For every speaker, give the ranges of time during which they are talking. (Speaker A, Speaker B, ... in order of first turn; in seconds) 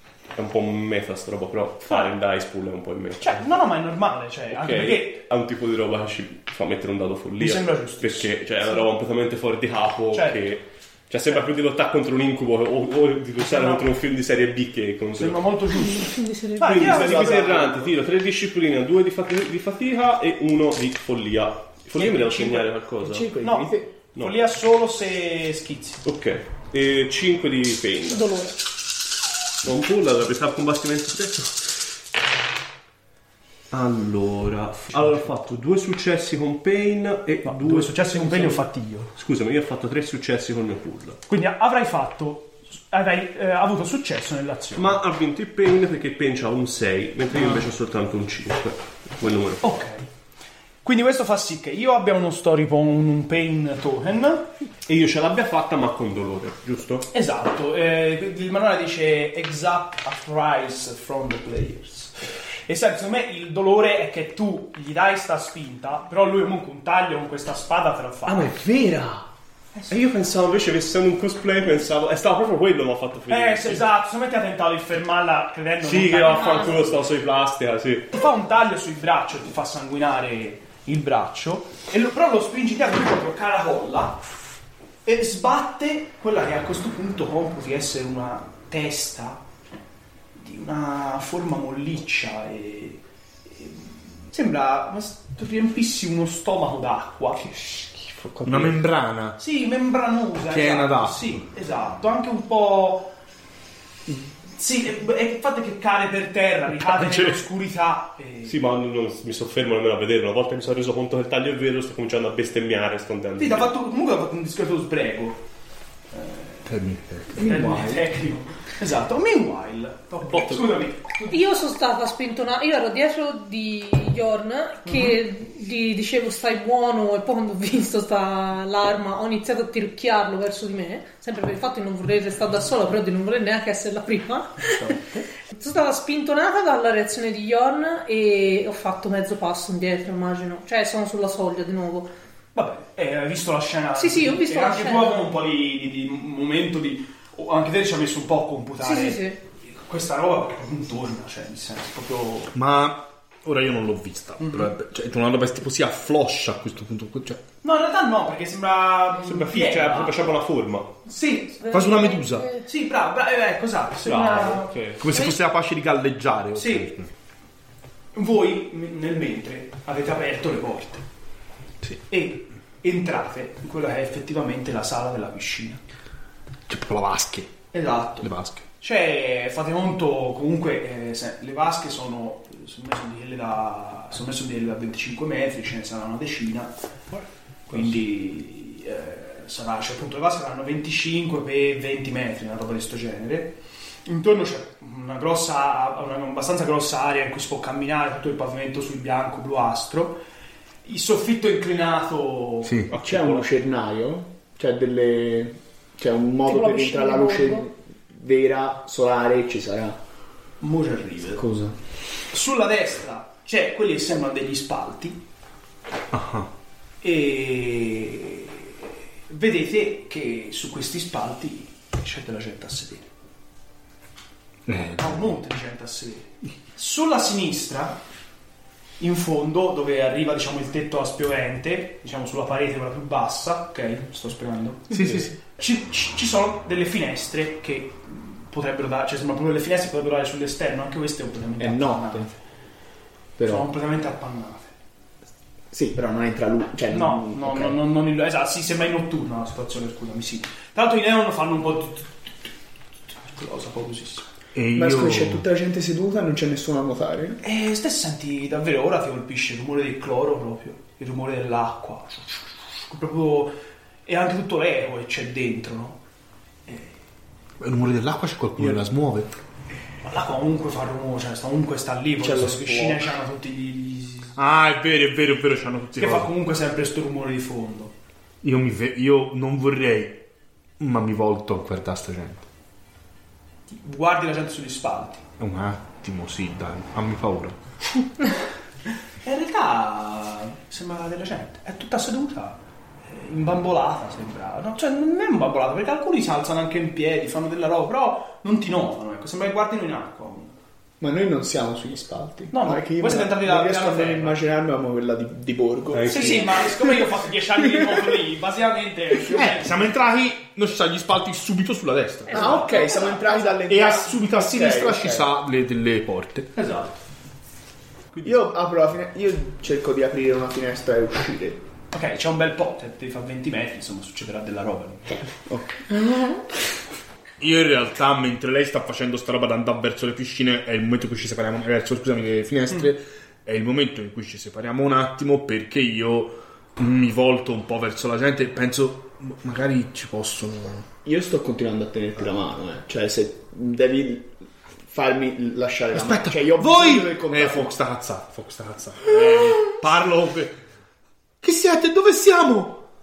Speaker A: 0.3-3.5, 4.5-15.5, 16.6-23.3, 26.1-28.4, 29.6-31.7, 33.7-41.2, 44.8-49.8, 54.9-57.1, 68.3-69.3, 69.9-73.9, 75.8-78.1, 97.7-98.8, 108.5-113.7, 120.3-120.8, 159.2-161.0, 164.1-165.1, 202.9-203.4, 305.9-306.6
Speaker B: 1.8-2.1, 3.2-5.2, 7.4-8.3, 10.1-10.5, 13.4-13.9, 15.2-17.7, 22.0-22.6, 23.4-26.0, 37.5-39.1, 41.3-45.0, 47.3-47.7, 49.6-50.1, 50.8-54.5, 57.1-68.5, 69.7-70.1, 73.3-77.0, 78.1-84.2, 85.0-89.4, 90.4-97.5, 99.4-103.1, 104.5-108.6, 113.4-115.4, 116.1-116.7, 117.3-121.4, 142.6-152.5, 154.4-154.7, 157.6-160.3, 161.1-161.7, 162.6-164.7, 166.6-166.9, 168.2-171.0, 172.1-175.8, 177.7-186.7, 187.7-193.5, 194.1-200.2, 200.8-202.8, 210.6-211.4, 212.3-215.2, 217.0-218.7, 219.3-223.1, 225.0-228.0, 229.0-242.4, 243.5-244.7, 246.9-252.5, 253.2-254.3, 257.4-263.5, 264.1-266.0, 266.7-266.9, 270.0-274.4, 276.0-277.9, 283.7-285.2, 289.2-300.5, 302.5-304.4, 306.1-309.8, 312.3-314.9, 316.6-317.0, 321.9-325.2
Speaker C: 15.8-16.8, 28.1-28.5, 76.3-76.8, 121.3-142.1, 144.0-145.3, 148.8-149.4, 161.6-162.7, 164.1-165.3, 206.5-207.7, 312.4-313.3, 326.0-326.4
Speaker D: 16.8-17.9, 22.3-23.9, 117.5-118.0, 202.9-210.0, 211.4-211.8, 241.6-242.3, 243.4-243.7, 245.7-247.8, 254.7-257.4, 272.2-273.1, 301.0-306.8, 312.3-315.3, 318.2-321.6, 325.5-326.1, 341.0-347.7
Speaker E: 98.5-99.4, 100.5-101.4, 106.8-107.4, 116.7-117.7, 152.5-157.4, 161.7-162.6, 165.0-167.1, 176.7-177.6, 178.2-178.6, 202.7-202.9, 216.1-216.5, 224.7-225.2, 234.9-235.3, 254.6-255.4, 267.6-269.3, 274.4-276.3, 278.4-280.2, 280.8-282.5, 285.4-287.6, 309.2-312.5, 313.7-316.5, 327.4-340.9, 345.9-350.6, 351.4-352.8